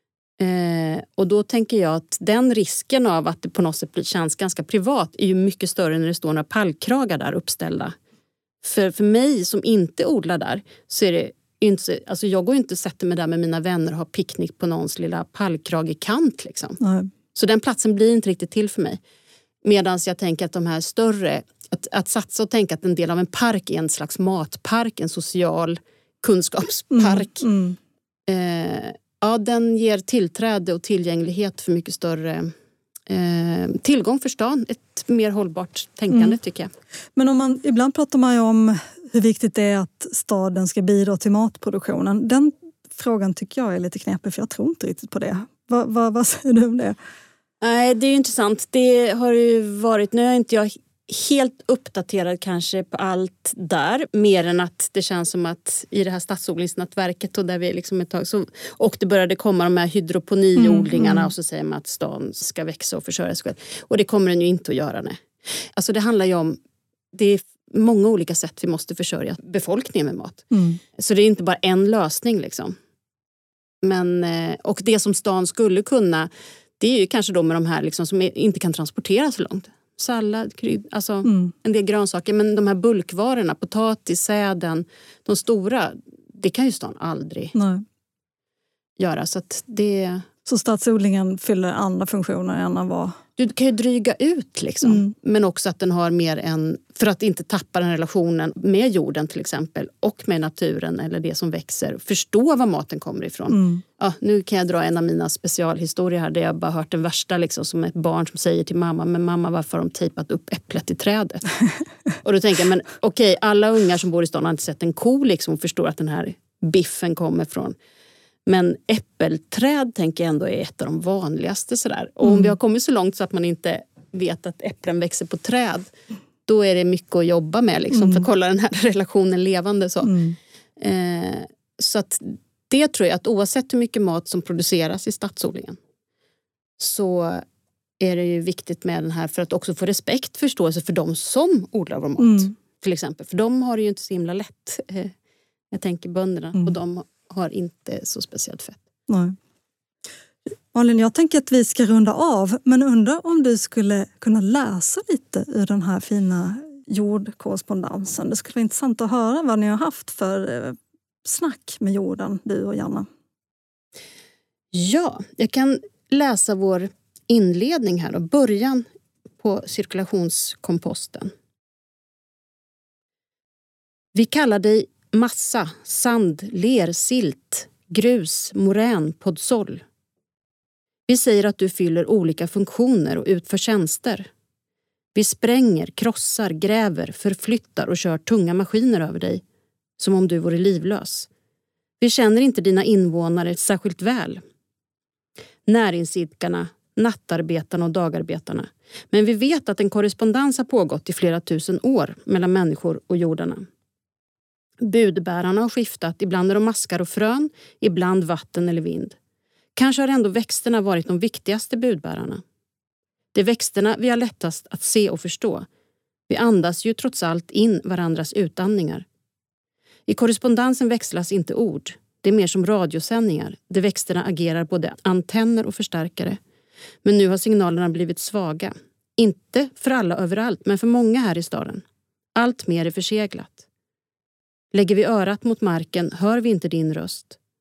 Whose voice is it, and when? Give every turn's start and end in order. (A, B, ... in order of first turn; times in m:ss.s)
0:00.4-0:08.0 A
0:08.6-0:16.8 A
0:16.8-0:17.1 B
0:17.4-0:19.0 A
0:19.6-0:27.5 A
0:26.9-0:27.8 B
0:28.3-0:32.5 A
0:33.1-0:36.7 A
0:37.2-0:47.0 B
0:47.6-1:06.6 A
1:00.6-1:01.3 B
1:07.1-1:12.8 A
1:10.5-1:10.8 B
1:13.8-1:27.6 A
1:21.2-1:21.5 B
1:27.6-1:27.8 B
1:29.0-1:30.3 A
1:30.4-1:33.2 B
1:33.4-1:51.5 A
1:34.8-1:35.1 B
1:43.5-1:43.8 B
1:52.2-1:57.8 A
1:58.5-2:05.9 A
2:02.2-2:02.5 B
2:06.5-2:10.2 A
2:07.9-2:08.3 B
2:10.0-2:10.4 B
2:10.8-2:15.8 A
2:16.8-2:17.4 A
2:18.0-2:25.1 A
2:22.2-2:22.5 B
2:25.7-2:28.8 A
2:29.1-2:29.4 B
2:30.7-2:43.1 B
2:44.7-2:48.9 A
2:49.4-2:51.3 A
2:54.1-2:59.8 A
3:01.1-3:04.3 A
3:05.2-3:09.4 A
3:10.0-3:11.3 A
3:12.0-3:14.4 A
3:15.7-3:23.7 A
3:24.8-3:29.2 A
3:29.8-3:32.4 A
3:33.3-3:35.7 A
3:36.3-3:39.0 A
3:40.1-3:46.4 A
3:47.0-3:51.8 A
3:52.4-3:53.7 A
3:54.7-3:57.4 A